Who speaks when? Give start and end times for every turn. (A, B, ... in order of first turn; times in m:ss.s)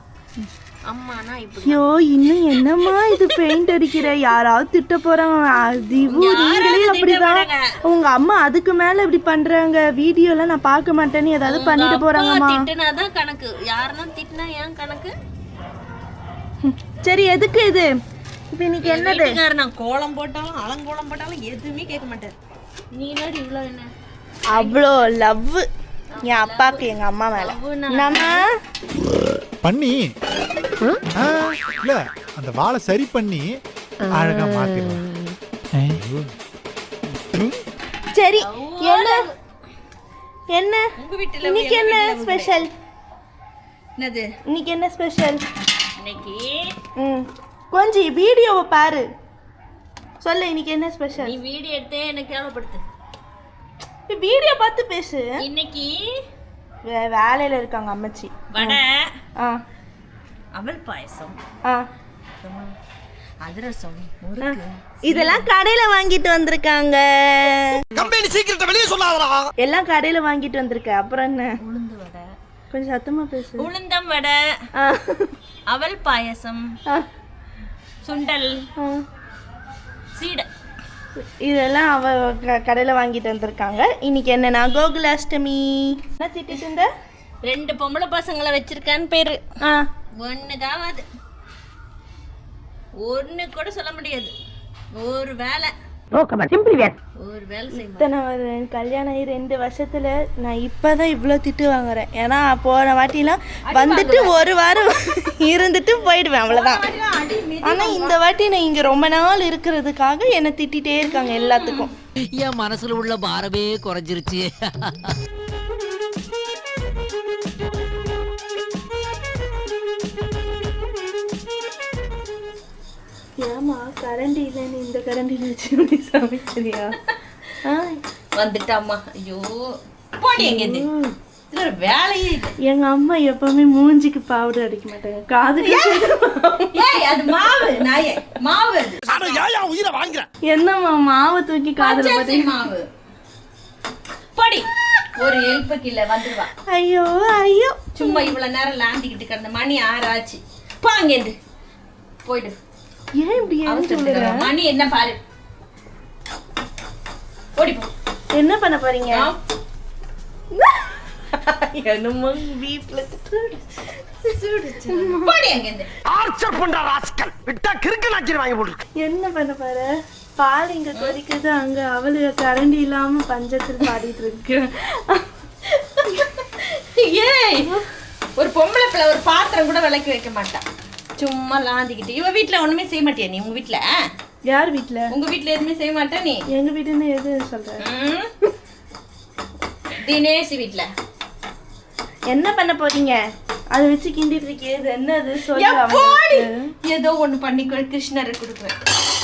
0:00.9-0:01.8 A
0:01.6-0:12.6 B
0:06.1-0:07.6 A
0:11.5-0:15.1 A
0:16.6-0:17.9 B
0:18.5-0:19.4 B
0:18.8-0:22.3 A
0:22.9-0:23.9 A
0:24.5-0:25.7 B
0:26.1-0:26.8 A
0:26.2-0:28.5 B
0:27.4-0:28.4 A
0:29.6-0:30.1 C
0:31.1-0:35.1 C
0:35.7-0:36.0 C
0:38.1-0:39.3 B
0:38.4-0:39.3 A
0:40.5-0:40.9 B
0:41.0-0:42.6 A
0:41.4-0:42.7 B
0:44.0-0:44.3 A
0:44.5-0:45.4 B
0:46.0-0:46.7 A
0:47.0-0:49.0 B
0:50.2-0:51.4 B
0:51.2-0:52.8 A
0:54.1-0:55.4 B
0:55.4-0:56.0 A
0:56.8-0:58.8 B
0:58.5-0:59.1 A
1:00.6-1:01.4 A
1:02.4-1:02.7 A
1:03.4-1:05.5 A
1:04.4-1:07.8 B
1:07.9-1:09.4 D
1:09.6-1:11.5 B
1:11.6-1:12.3 A
1:12.7-1:13.7 B
1:13.6-1:14.4 A
1:14.8-1:15.3 B
1:15.7-1:16.6 A
1:18.0-1:18.7 A
1:20.2-1:20.5 A
1:21.2-1:26.9 B
1:27.4-1:29.4 A
1:29.6-1:29.9 B
1:30.2-1:31.0 A
1:33.0-1:34.3 A
1:35.0-1:35.7 A
1:37.2-1:38.1 A
1:37.8-1:46.8 B
1:43.7-1:44.4 A
1:46.5-1:48.1 A
1:47.6-1:51.9 B
1:51.2-1:51.9 A
1:52.3-1:54.9 E
2:03.4-2:07.0 B
2:07.6-2:08.0 B
2:08.4-2:09.6 A
2:10.2-2:10.9 A
2:10.4-2:11.1 B
2:11.5-2:12.5 A
2:12.6-2:17.6 B
2:15.6-2:16.1 A
2:16.7-2:19.0 A
2:20.5-2:22.6 B
2:21.8-2:22.8 A
2:24.4-2:24.6 A
2:25.2-2:26.5 A
2:26.7-2:28.3 B
2:28.0-2:31.4 A
2:32.2-2:32.6 A
2:33.2-2:34.5 B
2:33.6-2:35.2 A
2:37.6-2:37.9 A
2:38.4-2:39.3 B
2:41.4-2:42.4 A
2:42.2-2:43.6 B
2:44.3-2:45.9 A
2:44.9-2:45.3 B
2:46.1-2:48.8 D
2:49.0-2:49.9 B
2:50.4-2:55.3 B
2:55.8-2:57.8 A
2:58.4-3:00.6 A
3:01.2-3:03.8 A
3:04.5-3:05.1 B
3:05.1-3:06.4 A
3:06.5-3:07.8 B
3:07.8-3:08.3 A
3:10.1-3:10.9 A
3:12.3-3:13.2 B
3:13.7-3:16.6 B
3:15.6-3:18.8 A